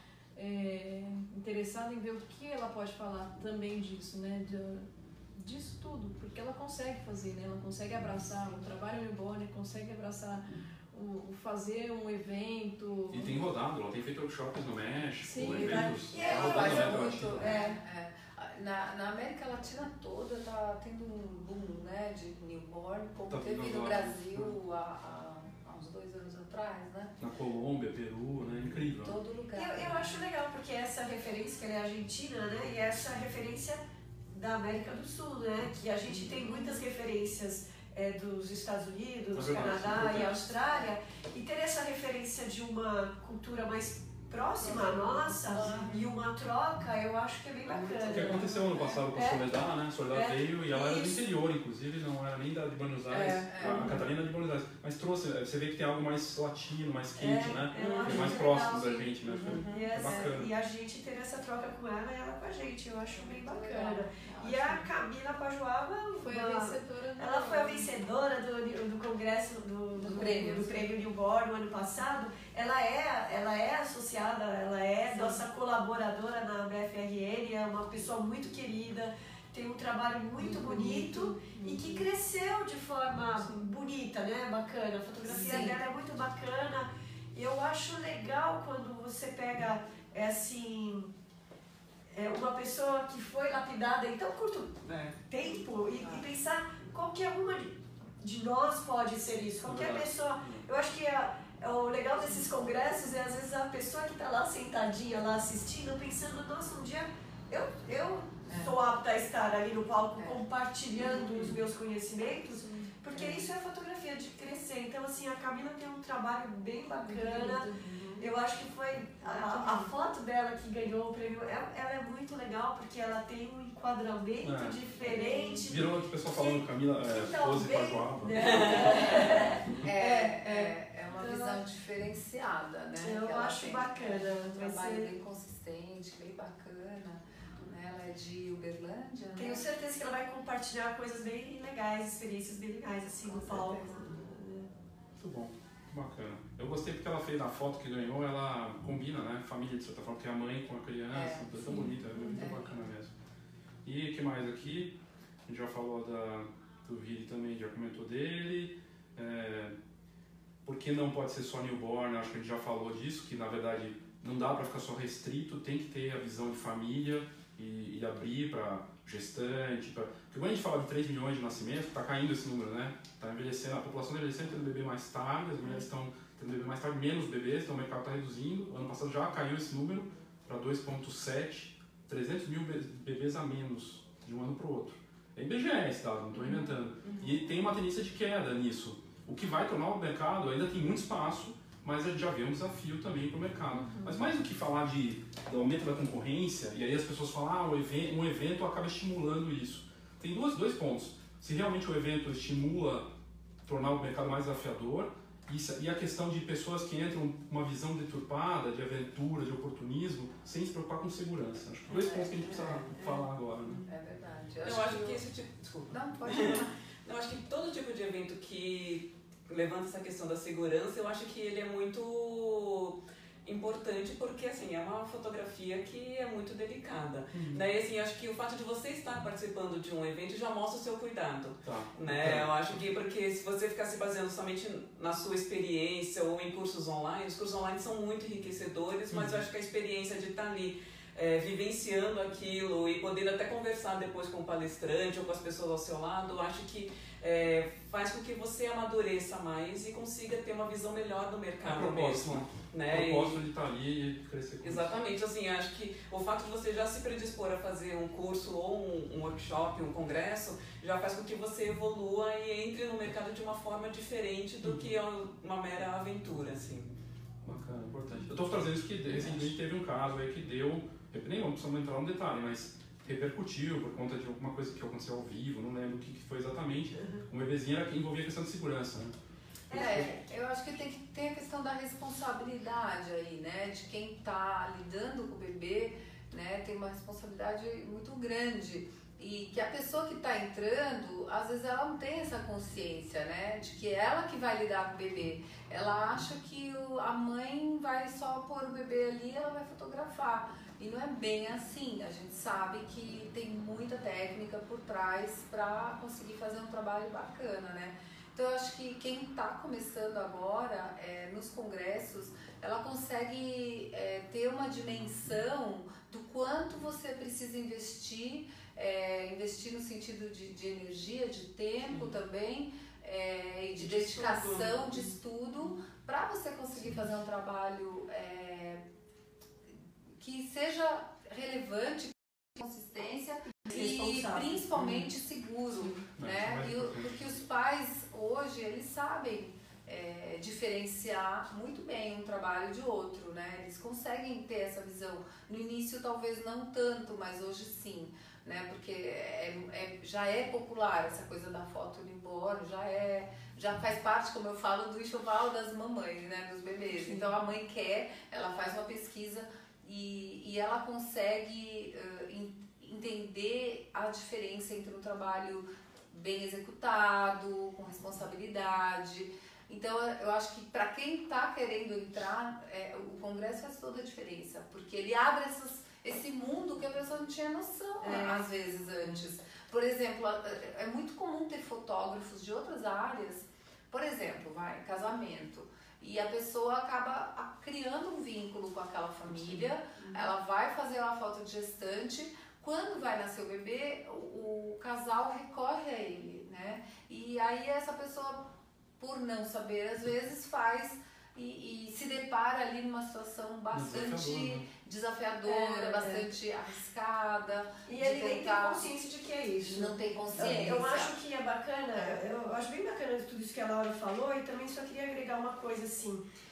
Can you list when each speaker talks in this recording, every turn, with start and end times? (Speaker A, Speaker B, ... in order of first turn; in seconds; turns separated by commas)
Speaker A: 0.4-13.4, Speaker B: 13.1-17.6, Speaker A: 15.2-16.0, Speaker C: 15.4-17.8, Speaker D: 15.7-27.2, Speaker B: 23.3-24.6, Speaker B: 27.2-29.2, Speaker D: 29.0-30.2, Speaker C: 29.5-49.5, Speaker B: 39.3-40.5, Speaker D: 40.2-40.9, Speaker D: 44.7-46.1, Speaker E: 45.6-45.9, Speaker E: 47.6-48.5, Speaker B: 48.1-60.5, Speaker C: 50.1-51.3, Speaker E: 53.1-54.0, Speaker D: 53.5-53.9, Speaker C: 57.2-59.1, Speaker E: 57.7-58.4, Speaker E: 59.2-59.7, Speaker D: 59.6-60.3, Speaker C: 59.7-91.1, Speaker D: 63.1-64.0, Speaker A: 64.2-64.9, Speaker A: 66.2-67.9, Speaker A: 70.0-70.7, Speaker D: 70.1-70.8, Speaker A: 80.4-82.1, Speaker A: 83.4-83.7, Speaker D: 85.3-85.7, Speaker A: 85.3-85.7, Speaker C: 92.1-131.6, Speaker E: 94.8-95.2, Speaker D: 96.0-96.3, Speaker B: 99.6-100.7, Speaker D: 108.5-108.8, Speaker D: 110.2-110.4, Speaker A: 112.6-112.9, Speaker D: 113.1-113.5, Speaker A: 117.0-118.0, Speaker D: 119.4-119.9, Speaker B: 124.4-124.8, Speaker D: 125.2-125.6, Speaker B: 125.7-129.0, Speaker E: 128.4-129.0, Speaker D: 129.8-139.6, Speaker C: 133.0-135.1, Speaker C: 139.4-144.7, Speaker D: 143.2-144.0, Speaker B: 145.2-153.1, Speaker D: 151.1-152.8, Speaker B: 153.8-154.9, Speaker B: 155.5-159.7, Speaker B: 160.6-203.1, Speaker A: 193.8-194.1, Speaker B: 203.7-213.8, Speaker E: 211.9-213.9, Speaker D: 211.9-212.8, Speaker D: 213.8-215.2, Speaker E: 214.6-253.4, Speaker D: 215.9-216.7, Speaker B: 227.3-227.6, Speaker B: 231.6-232.8, Speaker B: 239.1-239.4, Speaker B: 251.7-254.9, Speaker E: 254.6-266.9, Speaker B: 264.6-264.9, Speaker B: 267.4-279.1, Speaker C: 277.0-277.2, Speaker C: 279.7-280.3, Speaker D: 279.7-328.8, Speaker B: 279.8-280.1, Speaker E: 323.8-325.1, Speaker D: 330.2-398.4, Speaker C: 333.7-335.1, Speaker B: 336.2-337.4, Speaker A: 356.9-357.2, Speaker C: 378.0-378.4, Speaker E: 389.3-390.1, Speaker D: 399.0-408.9, Speaker B: 403.7-404.7, Speaker C: 405.4-406.3, Speaker C: 407.9-416.2, Speaker D: 409.6-411.1